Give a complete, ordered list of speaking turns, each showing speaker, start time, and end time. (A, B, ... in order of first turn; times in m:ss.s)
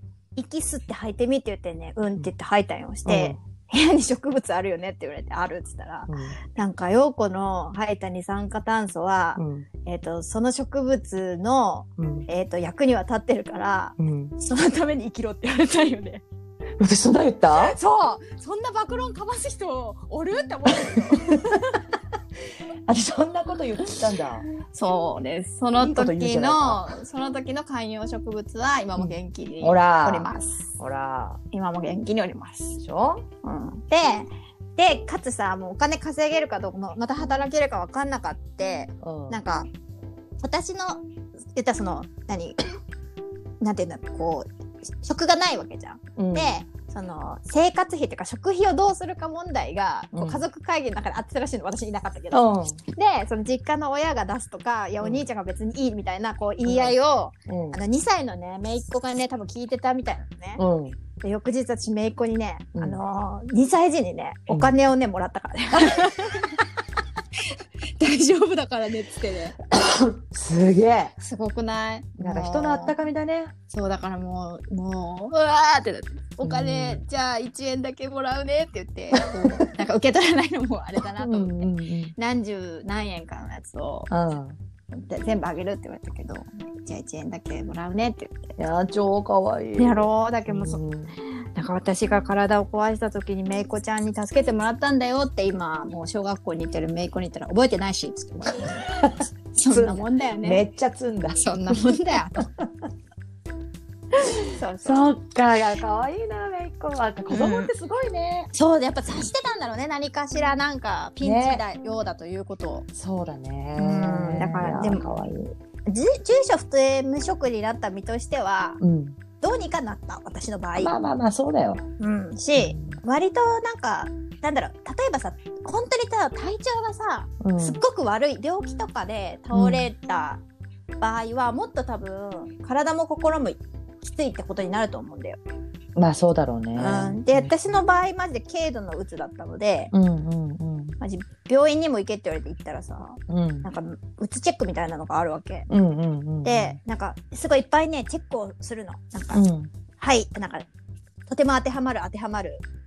0:00.4-0:16.2 A
0:03.0-0:03.4 B
0:06.1-0:06.4 B
0:09.4-0:09.7 B
0:12.0-0:12.3 B
0:14.0-0:14.3 B
0:16.8-0:17.8 B
0:17.5-0:21.8 A
0:22.9-0:24.4 B
0:24.6-0:30.6 A
0:25.8-0:27.0 B
0:29.0-0:31.4 B
0:31.5-0:32.8 A
0:32.8-0:33.2 B
0:33.4-0:39.7 A
0:39.0-0:39.4 B
0:40.4-0:41.0 A
0:41.5-0:42.6 A
0:43.6-1:00.6 A
0:46.2-0:46.5 B
0:50.1-0:50.4 B
0:52.3-0:52.8 B
0:55.0-0:55.3 B
0:56.6-0:57.0 B
0:57.5-0:57.8 B
1:00.6-1:01.0 B
1:01.2-1:06.7 A
1:02.7-1:03.0 B
1:04.5-1:04.7 B
1:08.0-1:09.6 A
1:09.8-1:11.1 B
1:11.2-1:13.0 A
1:12.2-1:13.5 B
1:13.7-1:24.1 A
1:16.4-1:17.0 B
1:19.1-1:19.6 B
1:21.2-1:22.1 B
1:24.1-1:24.6 B
1:24.9-1:28.5 A
1:28.6-1:31.2 B
1:29.8-1:30.8 A
1:31.5-1:39.0 A
1:38.7-1:41.8 B
1:39.5-1:40.6 A
1:41.4-1:42.5 A
1:44.5-1:45.1 A
1:44.8-1:48.5 B
1:47.3-1:47.7 A
1:48.5-1:52.8 A
1:51.2-1:51.6 B
1:52.9-1:55.5 B
1:53.8-1:55.1 A
1:55.8-1:58.8 A
1:58.8-1:59.2 B
1:59.4-2:00.9 A
2:00.8-2:01.8 B
2:02.0-2:10.4 A
2:02.6-2:03.0 B
2:07.4-2:07.8 B
2:09.5-2:09.9 B
2:11.0-2:15.4 A
2:16.0-2:17.8 B
2:16.7-2:19.9 A
2:19.9-2:21.0 B
2:21.0-2:25.7 A
2:23.3-2:23.7 B
2:25.7-2:26.8 B
2:26.4-2:29.4 A
2:29.3-2:29.7 B
2:30.0-2:30.6 A
2:31.3-2:32.6 A